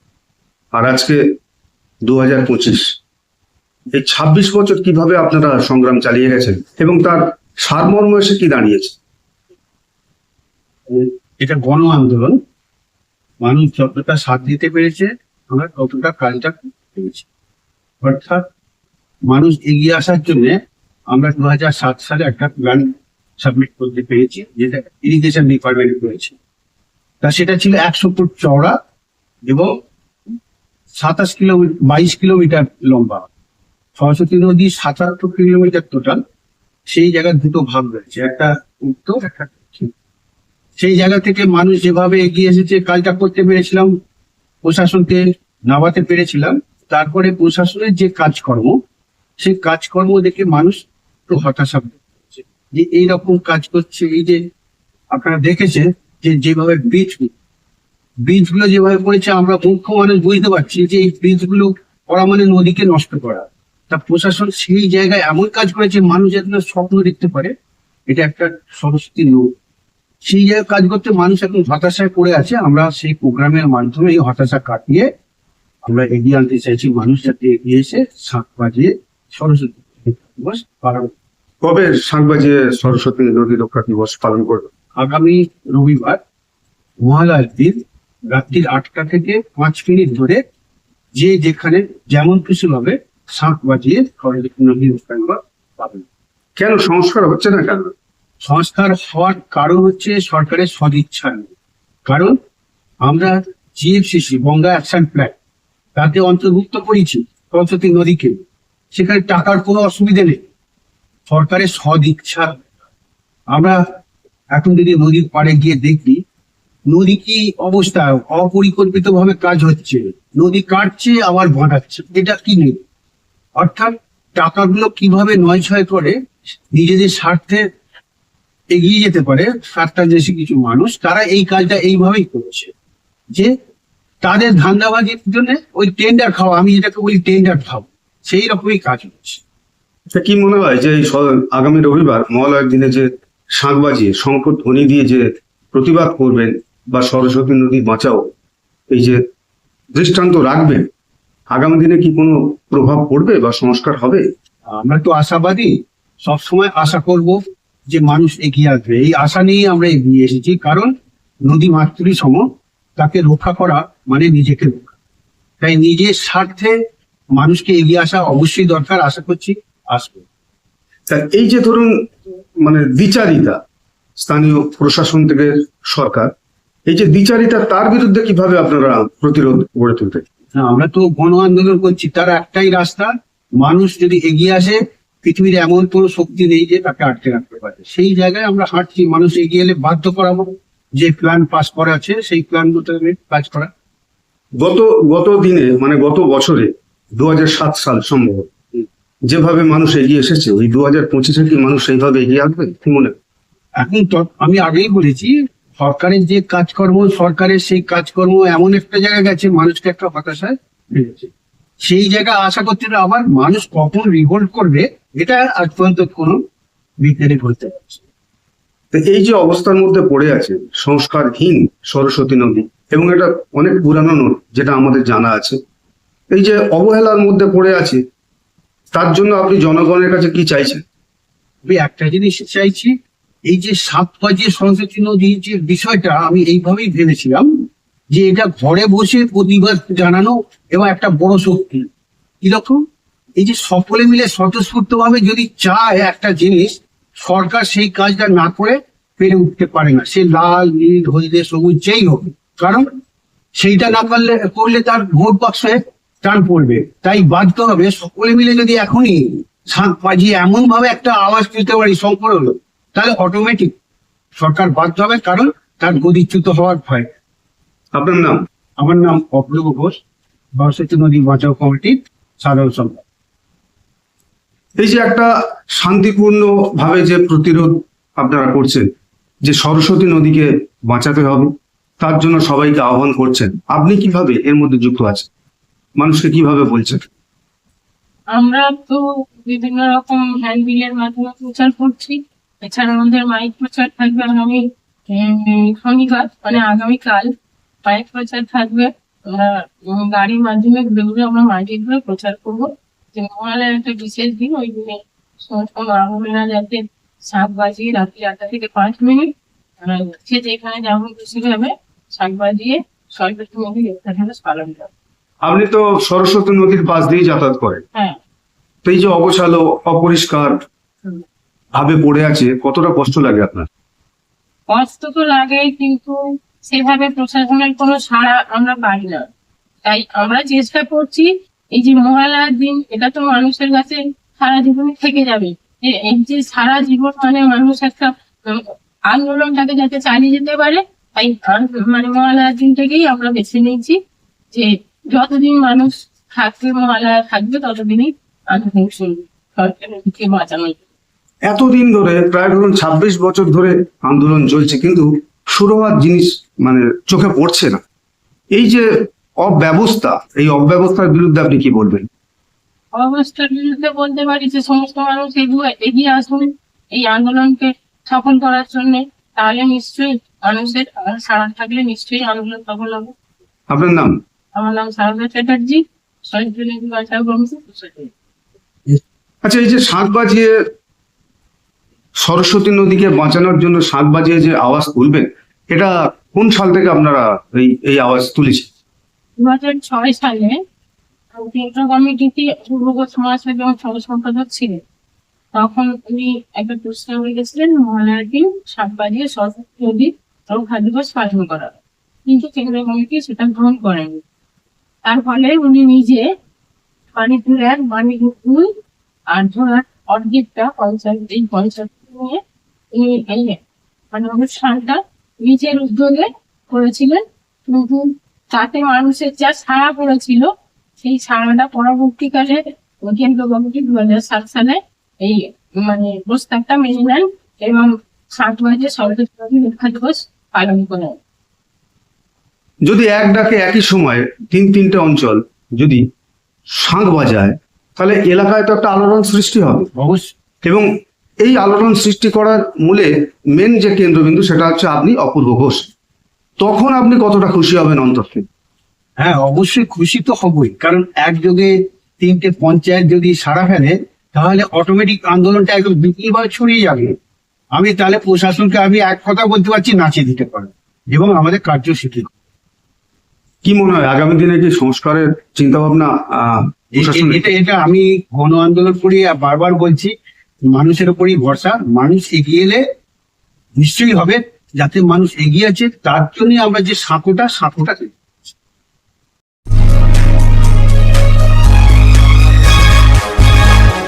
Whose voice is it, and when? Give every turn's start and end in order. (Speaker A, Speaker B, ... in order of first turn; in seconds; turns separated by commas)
Speaker A: 0.7-1.2, Speaker A: 2.1-2.9, Speaker A: 3.9-8.9, Speaker B: 10.9-12.4, Speaker B: 13.4-17.2, Speaker B: 18.0-18.4, Speaker B: 19.3-20.6, Speaker B: 21.1-26.3, Speaker B: 27.2-28.8, Speaker B: 29.5-29.7, Speaker B: 31.0-33.2, Speaker B: 34.0-36.2, Speaker B: 36.9-39.9, Speaker B: 40.8-43.9, Speaker B: 44.6-48.8, Speaker B: 49.4-54.4, Speaker B: 55.1-57.3, Speaker B: 58.2-67.5, Speaker B: 68.1-69.5, Speaker B: 70.2-75.1, Speaker B: 75.8-81.1, Speaker A: 81.6-84.7, Speaker B: 85.0-86.2, Speaker B: 87.0-87.8, Speaker B: 88.3-90.4, Speaker B: 91.2-96.0, Speaker A: 96.6-97.9, Speaker B: 98.4-101.5, Speaker B: 102.1-102.3, Speaker B: 103.0-105.3, Speaker B: 106.0-108.4, Speaker B: 108.9-110.4, Speaker B: 111.3-112.6, Speaker B: 113.5-113.8, Speaker B: 114.5-116.2, Speaker B: 116.9-122.8, Speaker B: 123.6-126.2, Speaker B: 126.7-127.6, Speaker B: 128.7-132.7, Speaker B: 134.2-139.4, Speaker A: 140.1-148.3, Speaker A: 148.9-149.2, Speaker A: 149.9-150.8, Speaker A: 151.5-154.2, Speaker B: 154.7-155.7, Speaker B: 156.2-160.9, Speaker B: 161.4-162.4, Speaker B: 163.0-164.9, Speaker B: 165.6-166.7, Speaker B: 167.3-170.2, Speaker A: 171.1-171.9, Speaker A: 172.6-173.6, Speaker A: 174.2-176.3, Speaker A: 176.9-180.2, Speaker B: 180.6-193.7, Speaker A: 194.6-203.1, Speaker B: 203.8-211.3, Speaker B: 211.8-216.4, Speaker B: 217.0-218.0, Speaker A: 218.9-225.6, Speaker A: 226.3-228.0, Speaker A: 228.9-230.8, Speaker B: 231.7-232.9, Speaker B: 233.5-237.5, Speaker B: 238.1-241.9, Speaker B: 242.4-242.8, Speaker B: 243.4-252.9, Speaker B: 253.6-263.7, Speaker B: 264.4-267.1, Speaker A: 267.9-268.4, Speaker B: 268.8-269.9, Speaker B: 270.6-273.0, Speaker A: 274.8-278.9, Speaker A: 279.4-285.3, Speaker A: 286.0-287.0, Speaker C: 288.3-297.3, Speaker C: 297.8-309.3, Speaker C: 309.8-314.9, Speaker A: 315.4-317.8, Speaker A: 318.8-320.6, Speaker A: 321.8-323.7, Speaker C: 324.7-329.2, Speaker C: 329.8-344.0, Speaker C: 344.5-350.8, Speaker A: 351.4-357.8, Speaker A: 358.5-362.1, Speaker C: 363.0-373.1, Speaker A: 373.7-374.1, Speaker C: 374.5-378.1, Speaker A: 379.4-380.5, Speaker A: 382.2-388.7, Speaker C: 389.4-390.6, Speaker C: 391.3-394.8, Speaker C: 395.5-404.2, Speaker C: 405.0-406.3, Speaker C: 407.1-408.7, Speaker C: 409.3-412.4, Speaker C: 412.9-413.6, Speaker C: 414.1-431.2, Speaker A: 432.9-436.0, Speaker A: 436.8-439.9, Speaker B: 439.9-440.3, Speaker A: 441.4-445.9, Speaker A: 446.6-448.4, Speaker B: 449.2-457.1, Speaker B: 457.7-462.3, Speaker A: 463.6-467.4, Speaker B: 466.9-470.1, Speaker B: 470.7-472.8, Speaker B: 473.8-478.1